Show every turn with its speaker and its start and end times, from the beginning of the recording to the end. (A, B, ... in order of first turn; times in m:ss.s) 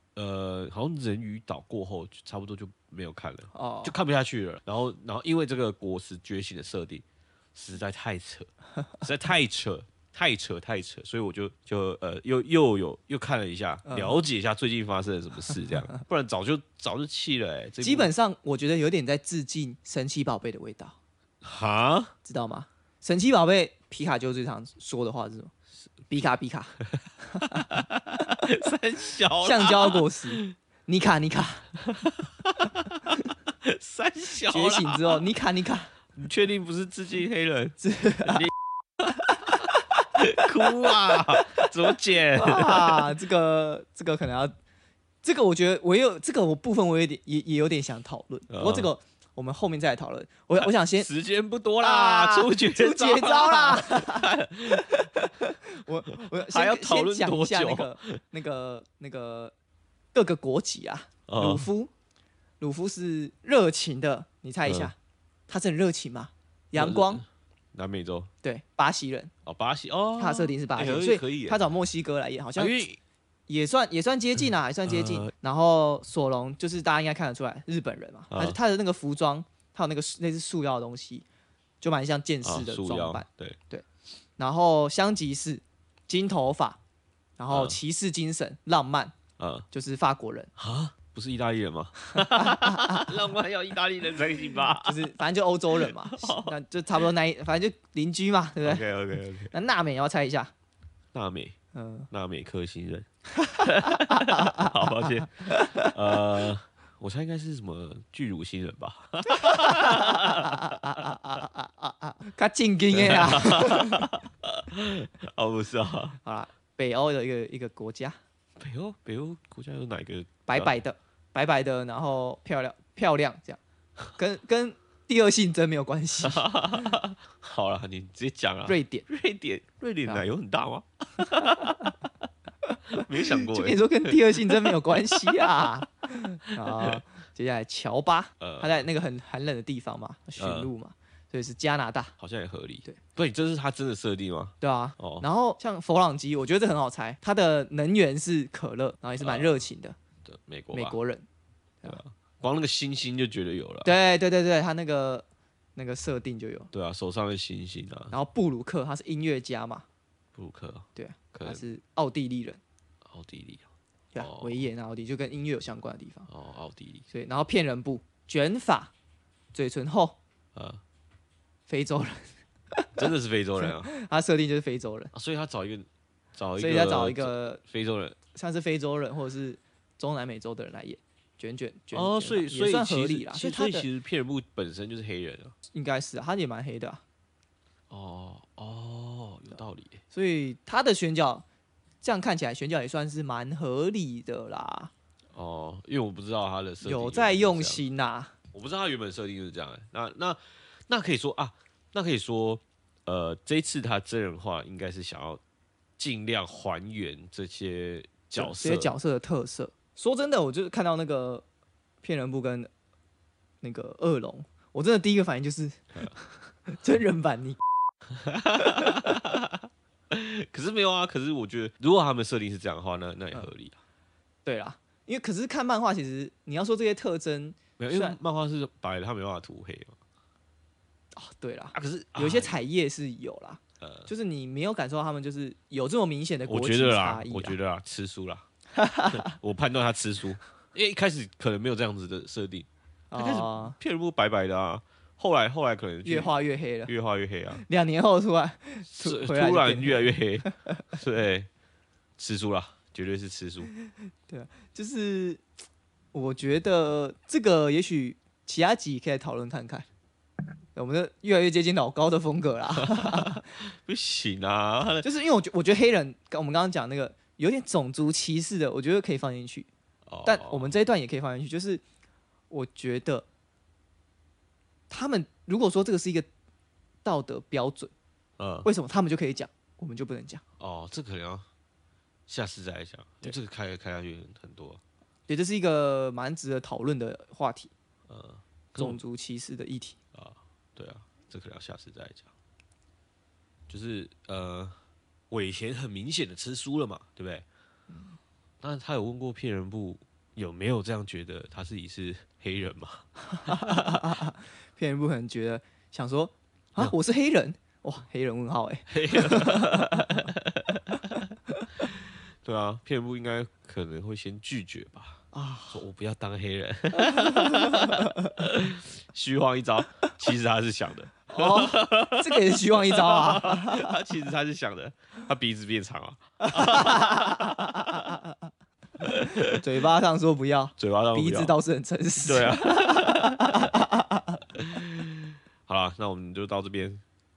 0:00.2-0:18.1 A
0:03.5-0:03.9 B
0:13.9-0:14.2 B
0:17.8-0:20.9 B
0:21.4-0:22.1 A
0:22.2-0:25.5 B
0:26.1-0:26.8 B
0:27.4-0:30.5 A
0:29.4-0:31.6 B
0:31.8-0:33.0 A
0:33.6-0:35.2 A
0:34.5-0:35.9 B
0:36.1-0:38.5 A
0:37.8-0:38.5 B
0:39.1-0:43.1 A
0:41.1-0:41.5 B
0:42.4-0:44.5 B
0:45.2-0:51.1 B
0:48.5-0:48.9 A
0:50.6-0:55.2 A
0:51.8-0:59.5 B
0:56.1-0:58.2 A
1:00.1-1:01.9 B
1:01.3-1:01.7 A
1:02.6-1:04.9 B
1:04.6-1:04.9 A
1:05.5-1:07.2 B
1:06.7-1:08.3 A
1:08.4-1:09.3 B
1:09.4-1:11.6 A
1:10.2-1:12.7 B
1:12.6-1:13.0 A
1:13.5-1:21.2 B
1:14.8-1:15.3 A
1:18.3-1:18.6 A
1:21.8-1:23.8 B
1:22.4-1:23.6 A
1:24.4-1:26.8 B
1:27.4-1:29.1 B
1:27.5-1:27.8 A
1:29.4-1:29.7 A
1:29.7-1:30.5 B
1:30.6-1:35.1 A
1:32.1-1:33.2 B
1:34.8-1:38.8 B
1:35.8-1:36.5 A
1:38.6-1:39.5 A
1:39.5-1:40.5 B
1:41.1-1:41.6 A
1:41.7-1:42.1 B
1:42.1-1:51.1 A
1:43.4-1:45.9 B
1:49.3-1:54.1 B
1:52.9-1:56.2 A
1:56.2-1:58.2 B
1:58.6-2:00.7 A
2:00.5-2:03.6 B
2:04.2-2:06.9 B
2:06.2-2:11.9 A
2:08.7-2:09.0 B
2:11.4-2:11.9 B
2:12.7-2:22.1 B
2:12.9-2:15.6 A
2:16.4-2:17.0 A
2:18.4-2:18.8 A
2:20.4-2:20.7 A
2:22.2-2:25.3 A
2:24.6-2:30.0 B
2:29.2-2:29.6 A
2:30.2-2:31.0 A
2:30.7-2:31.2 B
2:31.8-2:33.9 A
2:33.8-2:35.2 B
2:35.8-2:36.7 B
2:36.7-2:38.1 A
2:38.1-2:39.8 B
2:40.3-2:41.6 A
2:41.0-2:42.6 B
2:43.1-2:43.7 A
2:44.1-2:46.3 B
2:44.2-2:44.6 A
2:46.3-2:47.0 A
2:47.1-2:48.9 B
2:49.5-2:50.2 B
2:50.5-2:50.8 A
2:51.7-2:52.9 B
2:53.0-2:53.9 A
2:53.6-2:55.1 B
2:55.1-2:58.2 A
2:56.6-2:57.6 B
2:58.3-3:03.8 B
3:01.9-3:05.5 A
3:05.7-3:07.0 B
3:07.9-3:10.0 A
3:10.1-3:11.4 B
3:12.0-3:14.9 B
3:15.3-3:17.8 A
3:16.8-3:18.3 B
3:18.5-3:25.4 A
3:26.0-3:28.9 A
3:28.4-3:31.4 B
3:32.0-3:32.7 B
3:33.6-3:37.6 B
3:38.1-3:43.8 A
3:38.6-3:39.1 B
3:44.4-3:48.2 B
3:47.8-3:50.0 A
3:51.1-3:57.6 B
3:51.7-3:52.6 A
3:53.8-3:54.1 A
3:56.5-3:58.4 A
3:58.7-3:59.3 B
3:59.1-4:06.3 A
4:03.1-4:03.8 B
4:06.0-4:06.9 B
4:06.8-4:07.6 A
4:07.6-4:10.6 B
4:08.9-4:11.5 A
4:12.2-4:13.7 A
4:14.3-4:15.4 B
4:16.1-4:19.8 B
4:20.7-4:23.4 B
4:22.8-4:25.1 A
4:25.0-4:29.7 B
4:30.1-4:30.7 A
4:30.2-4:31.8 B
4:32.5-4:33.2 B
4:34.9-4:36.3 B
4:37.0-4:37.9 B
4:38.4-4:38.7 A
4:38.6-4:40.4 B
4:40.6-4:41.4 A
4:42.3-4:44.8 A
4:45.3-4:47.7 B
4:48.1-4:49.0 A
4:48.8-4:50.0 B
4:50.1-4:52.3 A
4:53.7-4:54.8 A
4:55.3-4:57.4 A
4:58.6-5:03.9 A
5:03.4-5:10.2 B
5:08.9-5:11.3 A
5:12.4-5:28.0 A
5:15.3-5:15.8 B
5:17.1-5:18.1 B
5:21.3-5:23.9 B
5:26.5-5:28.2 B
5:29.0-5:29.6 A
5:29.5-5:34.4 B
5:30.8-5:31.5 A
5:32.2-5:33.7 A
5:34.5-5:37.0 A